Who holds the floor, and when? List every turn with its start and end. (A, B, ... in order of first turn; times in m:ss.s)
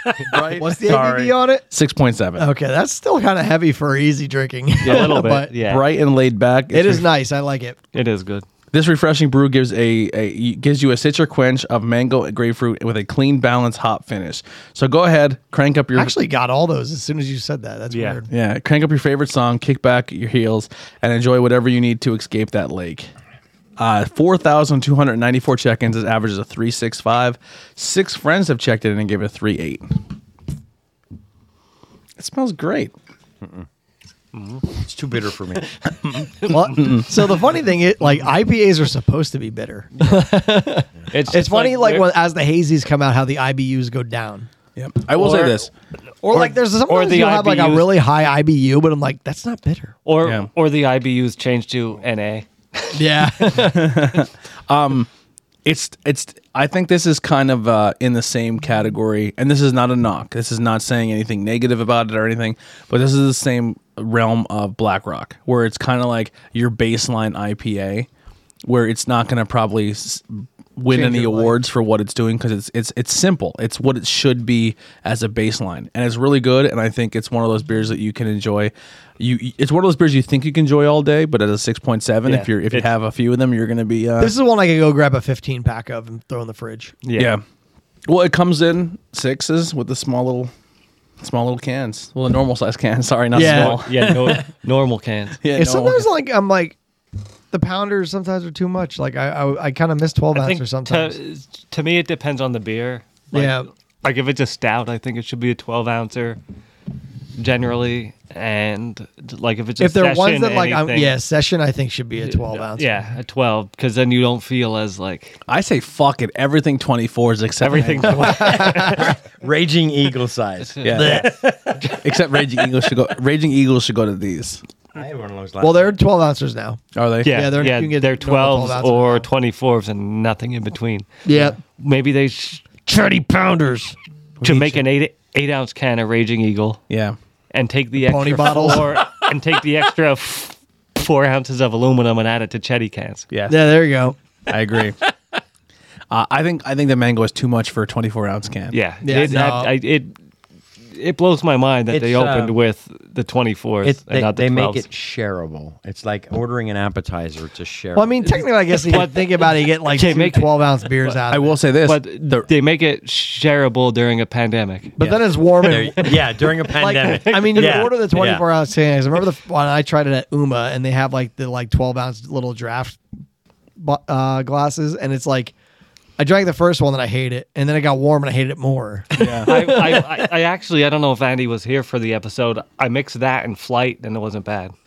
0:00.2-0:01.3 A
0:00.3-0:01.6 B
0:01.7-0:02.5 C
0:02.4-0:05.5 B
0:04.8-0:05.8 D
0:04.8-0:07.1 C
0:06.7-0:07.8 B
0:07.9-0:08.4 D
0:08.7-0:16.2 C
0:15.9-0:18.3 B
0:17.9-0:18.2 D
0:18.3-0:23.1 C
0:23.8-0:30.0 C
0:32.2-0:32.9 C
0:34.3-0:34.6 D
0:34.7-0:35.8 A
0:35.8-0:36.7 D
0:36.0-0:37.1 C
0:36.4-0:44.5 B
0:41.1-0:42.1 D
0:44.8-0:45.7 C
0:45.2-0:45.6 B
0:46.2-0:49.9 B
0:46.3-0:47.9 D
0:50.0-0:53.1 D
0:50.2-0:50.5 C
0:52.9-0:54.2 B
0:53.5-0:55.1 C
0:55.6-1:08.1 C
1:08.6-1:24.3 C
1:10.9-1:11.6 B
1:22.2-1:22.9 D
1:24.2-1:26.9 B
1:27.0-1:27.3 D
1:27.2-1:27.4 C
1:28.1-1:30.5 C
1:31.2-1:34.4 C
1:33.3-1:33.8 B
1:33.4-1:35.4 D
1:35.4-1:36.1 C
1:35.5-1:36.8 B
1:37.5-1:41.2 B
1:40.3-1:46.4 D
1:43.3-1:43.7 B
1:47.4-1:51.1 D
1:49.8-1:53.0 B
1:52.3-1:55.4 D
1:55.5-1:58.5 C
1:57.6-1:59.2 D
1:58.1-1:59.1 B
1:58.7-2:02.0 A
2:00.8-2:01.2 D
2:00.8-2:01.3 C
2:00.9-2:01.3 B
2:01.9-2:04.6 C
2:04.9-2:05.9 A
2:05.6-2:09.3 B
2:06.9-2:07.3 C
2:07.2-2:12.9 D
2:11.2-2:11.6 B
2:12.8-2:14.0 B
2:14.4-2:16.8 D
2:14.4-2:14.8 C
2:16.9-2:17.2 C
2:17.5-2:23.3 D
2:18.0-2:19.0 B
2:23.3-2:23.8 C
2:23.5-2:24.2 B
2:24.5-2:25.0 C
2:26.1-2:28.8 C
2:28.7-2:30.1 D
2:29.0-2:29.7 B
2:30.9-2:34.8 D
2:31.9-2:32.5 A
2:33.8-2:38.4 A
2:37.9-2:41.6 B
2:38.8-2:41.2 D
2:41.3-2:42.5 C
2:41.8-2:45.0 D
2:45.0-2:53.0 B
2:45.7-2:48.4 A
2:47.0-2:47.9 D
2:53.8-2:55.5 B
2:56.2-3:00.2 B
2:59.2-2:59.5 C
2:59.2-3:04.7 D